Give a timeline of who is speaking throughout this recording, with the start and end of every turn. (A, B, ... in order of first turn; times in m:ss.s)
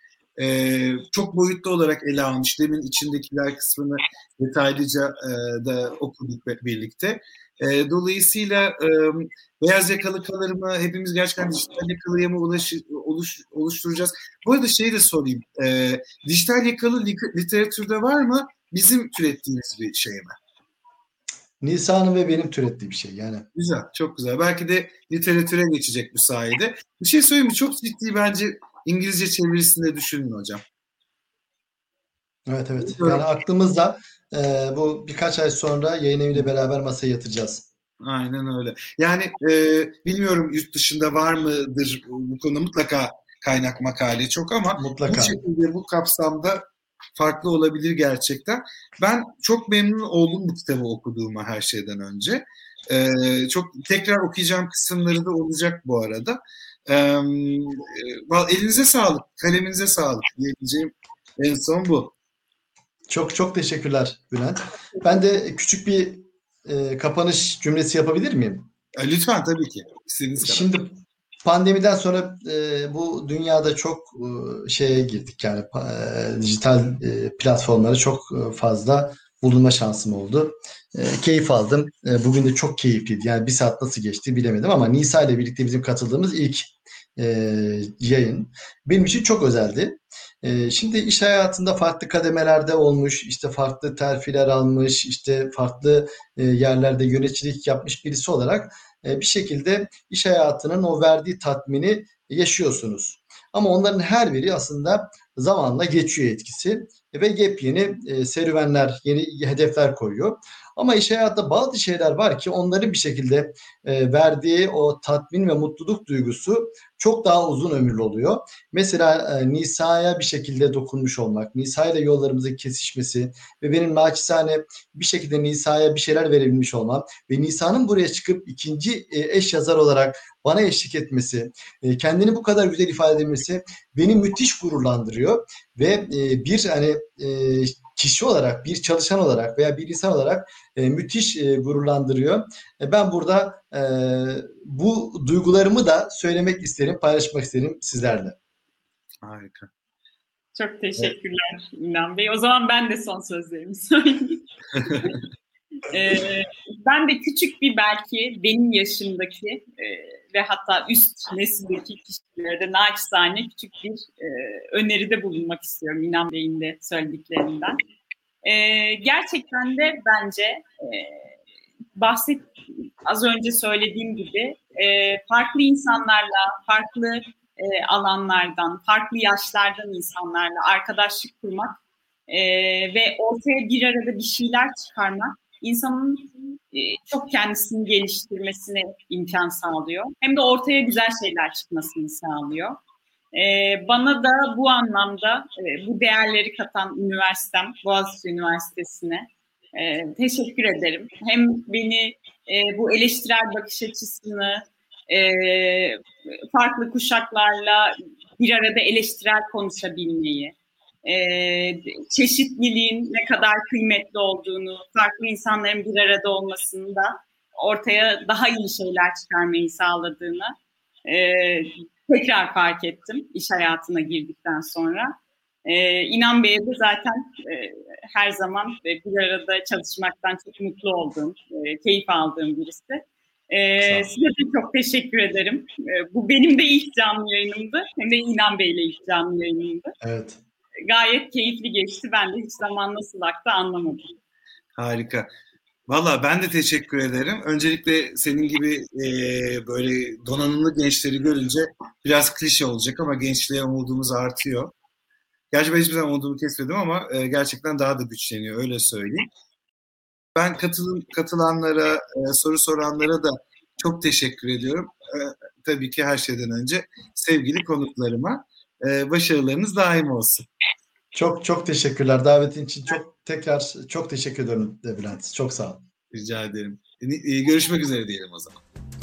0:00.4-0:20.4 A
0:21.6-0:23.4 B
0:23.6-0:30.6 A
0:32.5-0:37.7 B
0:32.8-0:33.2 A
0:38.0-0:46.6 A
0:44.8-0:45.4 B
0:47.2-1:02.1 A
1:03.1-1:08.7 B
1:09.0-1:10.7 A
1:10.4-2:28.4 B
2:29.2-2:29.7 A
2:30.5-2:34.4 C
2:34.8-2:35.1 A
2:35.9-2:47.8 C
2:48.4-2:51.4 C
2:52.0-3:12.8 C
3:13.3-3:26.0 C
3:26.5-3:40.6 C
3:41.1-3:59.9 C
3:53.8-3:54.1 B
4:00.0-4:00.4 B
4:00.9-4:04.1 C
4:04.8-4:05.3 A
4:05.9-4:14.7 A
4:15.5-4:19.3 A
4:20.4-4:30.5 A
4:31.1-4:35.8 B
4:36.1-4:38.6 A